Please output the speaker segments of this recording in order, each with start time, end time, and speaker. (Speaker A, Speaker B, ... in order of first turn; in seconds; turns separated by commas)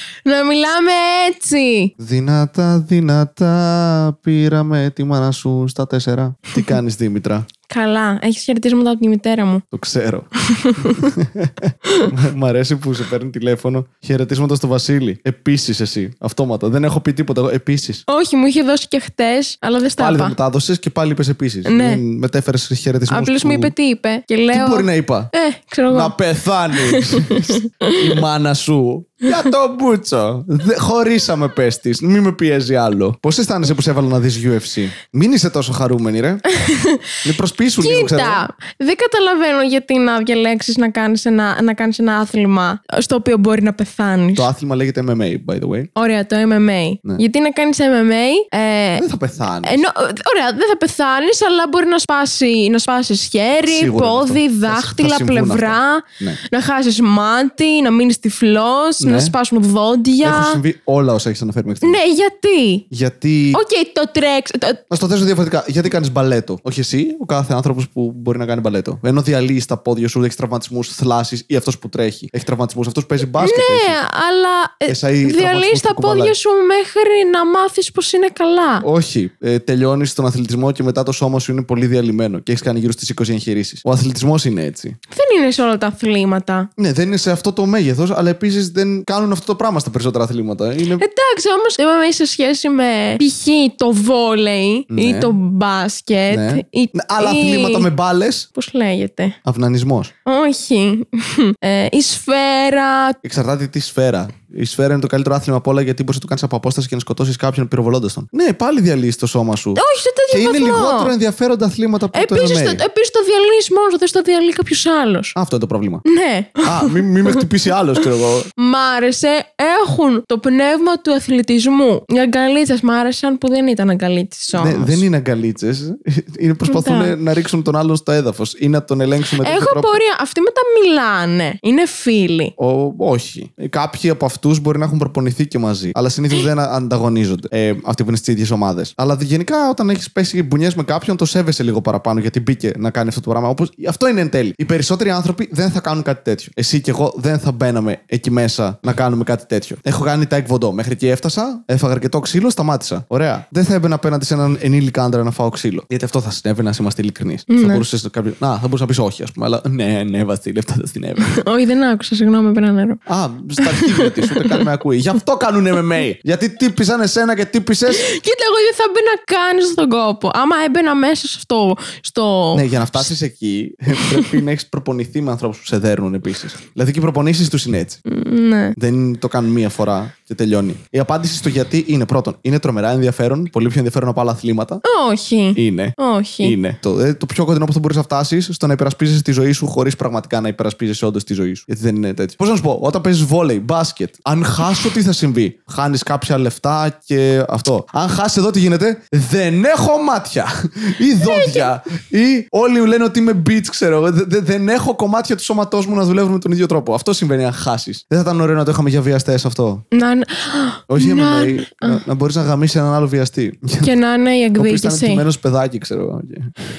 Speaker A: 0.2-1.9, Speaker B: 2.0-7.5, Speaker A: 7.7-9.6, Speaker B: 9.7-10.3, Speaker A: 10.5-11.1, Speaker B: 10.8-18.0, Speaker A: 18.1-20.4, Speaker B: 20.0-23.7, Speaker A: 21.6-22.0, Speaker A: 23.1-26.1, Speaker B: 24.5-25.3, Speaker B: 25.9-36.4, Speaker A: 26.7-28.0, Speaker A: 36.5-37.0, Speaker B: 37.2-38.4, Speaker A: 37.8-44.5, Speaker B: 44.4-45.9, Speaker A: 45.9-49.0, Speaker B: 49.0-49.8, Speaker A: 49.6-60.6, Speaker B: 53.6-56.4, Speaker B: 59.0-59.3, Speaker B: 60.2-62.0, Speaker A: 61.8-62.9, Speaker B: 62.9-63.6, Speaker A: 63.5-64.8, Speaker B: 64.9-74.0, Speaker A: 73.2-78.8, Speaker B: 74.9-76.3, Speaker B: 78.8-85.0, Speaker A: 85.1-86.7, Speaker B: 86.8-91.0, Speaker A: 91.0-97.9, Speaker B: 94.9-95.3, Speaker B: 96.3-98.5, Speaker A: 98.5-99.3, Speaker B: 99.4-100.1, Speaker A: 100.2-103.2, Speaker B: 103.2-112.8, Speaker A: 109.7-111.1, Speaker A: 112.1-115.3, Speaker B: 115.3-116.0, Speaker A: 116.0-117.4, Speaker B: 116.6-118.5, Speaker A: 118.6-125.0, Speaker B: 124.5-130.0, Speaker A: 126.7-127.2, Speaker A: 129.4-132.5, Speaker B: 132.6-161.4, Speaker A: 157.5-157.8, Speaker A: 161.2-163.0, Speaker B: 163.1-168.0, Speaker A: 163.6-164.6, Speaker A: 167.9-173.1, Speaker B: 172.5-178.0, Speaker A: 173.9-174.4, Speaker A: 178.1-178.8, Speaker B: 178.8-184.8, Speaker A: 184.8-186.5, Speaker B: 185.6-209.8, Speaker A: 201.2-201.7, Speaker A: 209.9-212.0, Speaker B: 210.9-213.9, Speaker A: 213.8-215.2, Speaker B: 214.6-216.5